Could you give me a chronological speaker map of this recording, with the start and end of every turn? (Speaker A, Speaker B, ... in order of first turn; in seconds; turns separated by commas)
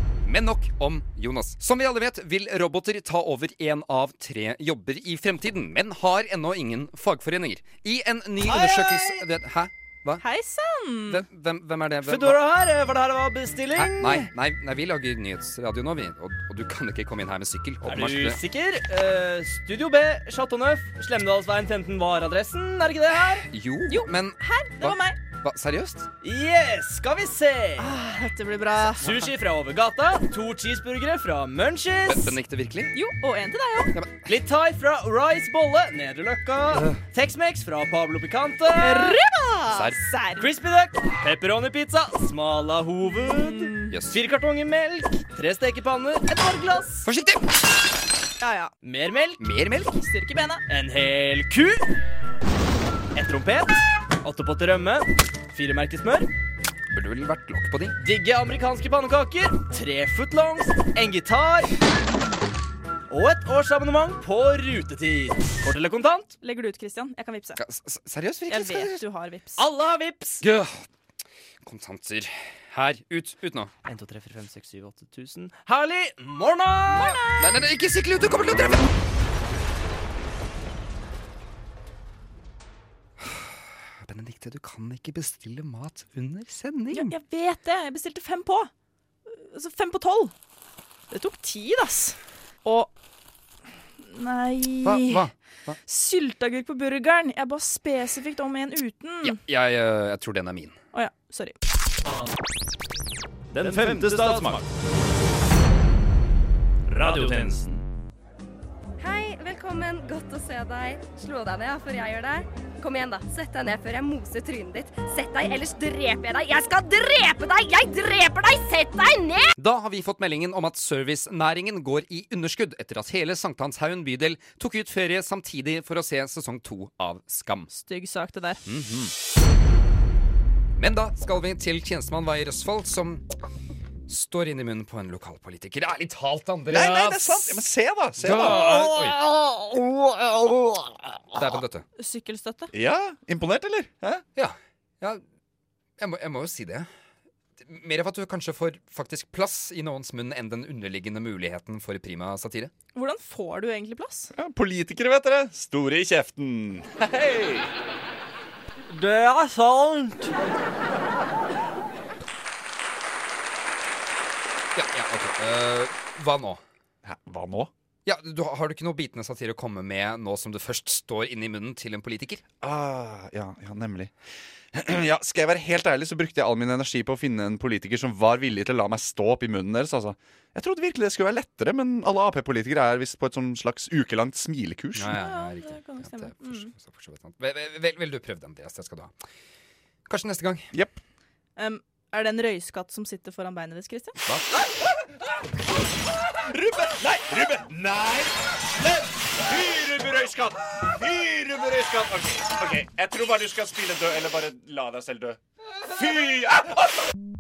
Speaker A: 0.2-10.2, Speaker B: 8.4-9.2, Speaker C: 10.2-11.2, Speaker A: 11.1-12.4, Speaker B: 12.0-14.3, Speaker A: 13.7-18.4, Speaker B: 17.8-23.4, Speaker A: 23.5-26.1, Speaker C: 23.9-25.2, Speaker B: 26.2-27.9, Speaker C: 27.8-29.1, Speaker B: 29.0-32.3, Speaker A: 32.0-32.9, Speaker C: 32.9-33.9, Speaker A: 33.9-34.3, Speaker B: 34.3-39.1, Speaker A: 36.7-37.0, Speaker C: 38.8-40.5, Speaker A: 39.7-40.0, Speaker B: 40.4-47.0, Speaker C: 43.2-44.0, Speaker A: 43.9-44.2, Speaker A: 47.0-47.5, Speaker C: 48.4-48.7, Speaker B: 48.8-49.4, Speaker A: 49.4-49.9, Speaker C: 49.9-50.6, Speaker B: 50.7-51.8, Speaker B: 53.1-56.3, Speaker A: 56.9-58.0, Speaker B: 58.0-61.7, Speaker B: 63.1-66.4, Speaker C: 66.4-67.6, Speaker A: 67.6-69.0, Speaker C: 68.5-69.6, Speaker B: 69.6-70.5, Speaker A: 70.4-70.8, Speaker A: 71.6-73.7, Speaker B: 73.9-77.2, Speaker C: 76.9-77.5, Speaker A: 77.4-78.9, Speaker A: 84.0-87.1, Speaker C: 86.9-88.7, Speaker C: 89.3-90.3, Speaker C: 91.1-92.9, Speaker C: 94.0-95.3, Speaker A: 94.8-95.8, Speaker C: 95.8-99.4, Speaker A: 99.2-100.8, Speaker C: 100.9-101.6, Speaker D: 103.5-104.7, Speaker B: 103.7-103.9, Speaker D: 106.9-107.8, Speaker E: 109.0-119.5, Speaker A: 119.6-127.7, Speaker C: 127.7-128.6, Speaker A: 128.7-129.1, Speaker A: 130.8-133.2, Speaker A: 134.1-137.7, Speaker F: 136.7-139.1, Speaker A: 138.2-139.3, Speaker A: 141.3-141.8, Speaker C: 142.0-142.7, Speaker F: 142.7-144.2, Speaker A: 144.4-145.2, Speaker A: 146.0-146.9, Speaker A: 147.6-152.7, Speaker C: 152.9-154.3, Speaker F: 154.4-157.7, Speaker B: 158.9-160.3, Speaker A: 164.8-166.6, Speaker F: 167.1-167.7, Speaker A: 168.1-172.4, Speaker F: 172.6-174.1, Speaker F: 174.7-185.2, Speaker A: 184.9-189.1, Speaker C: 185.1-186.7, Speaker A: 190.1-190.7, Speaker F: 190.7-191.0, Speaker C: 191.6-194.2, Speaker F: 196.5-206.8